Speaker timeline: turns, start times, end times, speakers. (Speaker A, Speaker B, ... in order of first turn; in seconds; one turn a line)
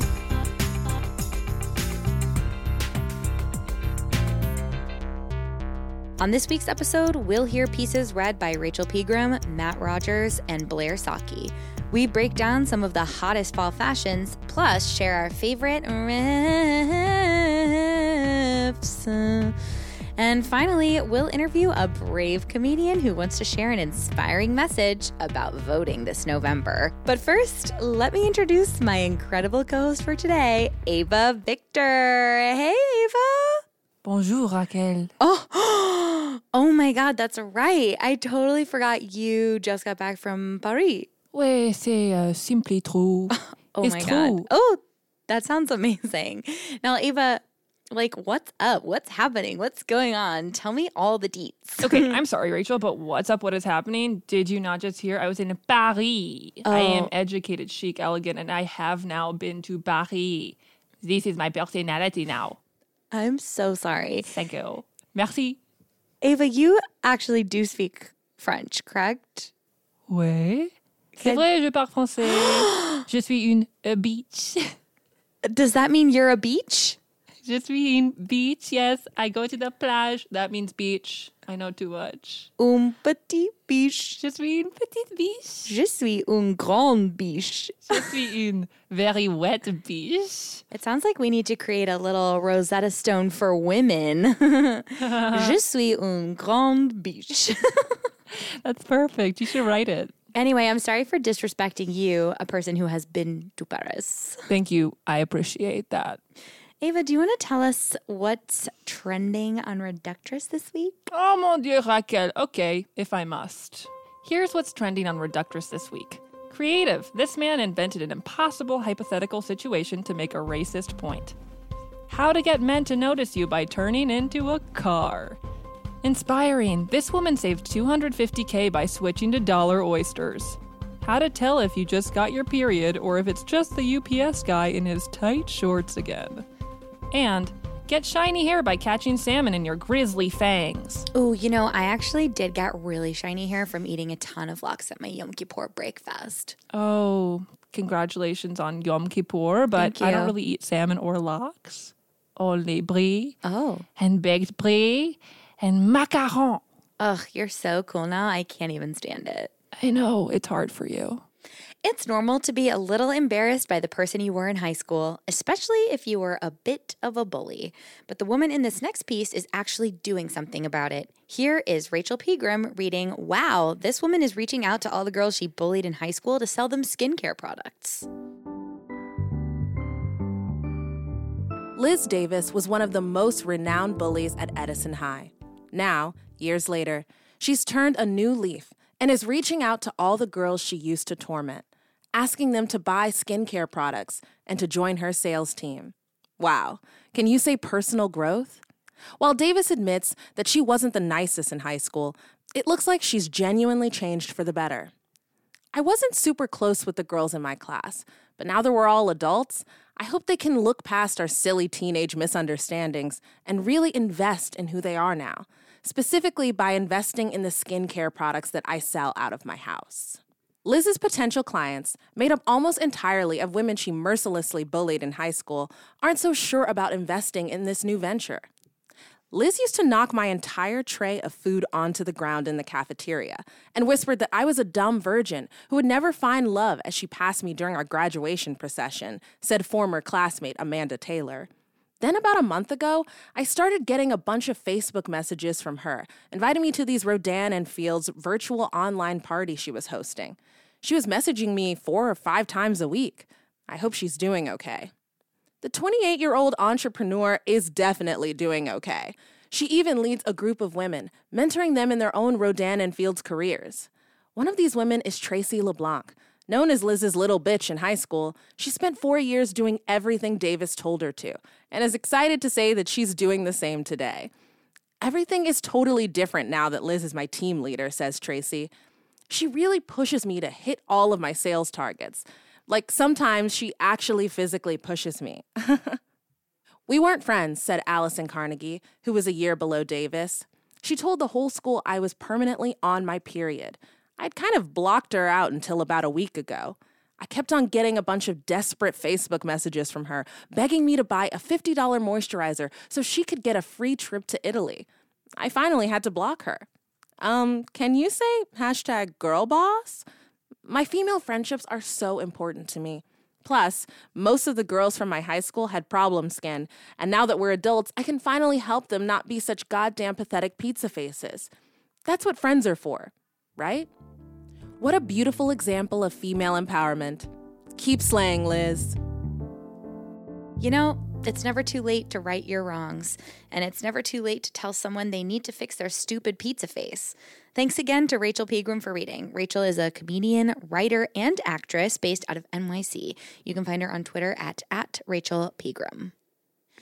Speaker A: 6.2-19.6
Speaker A: 20.2-33.6
Speaker B: 34.0-35.1
Speaker A: 35.2-41.1
Speaker B: 41.3-44.5
Speaker A: 43.3-52.1
Speaker B: 51.8-62.6
Speaker A: 56.6-57.1
Speaker A: 63.1-64.3
Speaker B: 64.3-65.6
Speaker A: 66.2-69.5
Speaker B: 70.1-74.7
Speaker A: 71.2-71.4
Speaker A: 75.4-77.0
Speaker B: 77.4-82.5
Speaker A: 82.6-84.2
Speaker B: 84.2-85.7
Speaker A: 85.6-88.1
Speaker B: 87.9-90.6
Speaker A: 90.7-98.1
Speaker B: 95.0-95.5
Speaker B: 98.6-100.1
Speaker A: 100.3-104.5
Speaker B: 104.5-106.2
Speaker A: 106.8-111.0
Speaker B: 111.1-121.3
Speaker B: 122.1-125.4
Speaker B: 126.0-136.4
Speaker B: 137.1-141.1
Speaker A: 141.1-146.6
Speaker B: 146.7-153.4
Speaker A: 149.8-150.3
Speaker A: 153.4-153.8
Speaker B: 154.0-156.6
Speaker A: 157.0-159.5
Speaker B: 159.8-161.2
Speaker A: 161.8-178.1
Speaker C: 181.8-198.6
Speaker C: 199.2-204.9
Speaker C: 205.7-228.5
Speaker C: 229.3-241.5
Speaker C: 242.0-254.9
Speaker C: 255.6-274.3
Speaker C: 275.0-278.7
Speaker C: 279.3-286.0
Speaker C: 286.9-304.9
Speaker C: 305.4-306.6
Speaker C: 307.2-310.1
Speaker C: 310.6-321.5
Speaker C: 322.1-323.9
Speaker C: 324.8-328.9
Speaker A: 330.6-346.1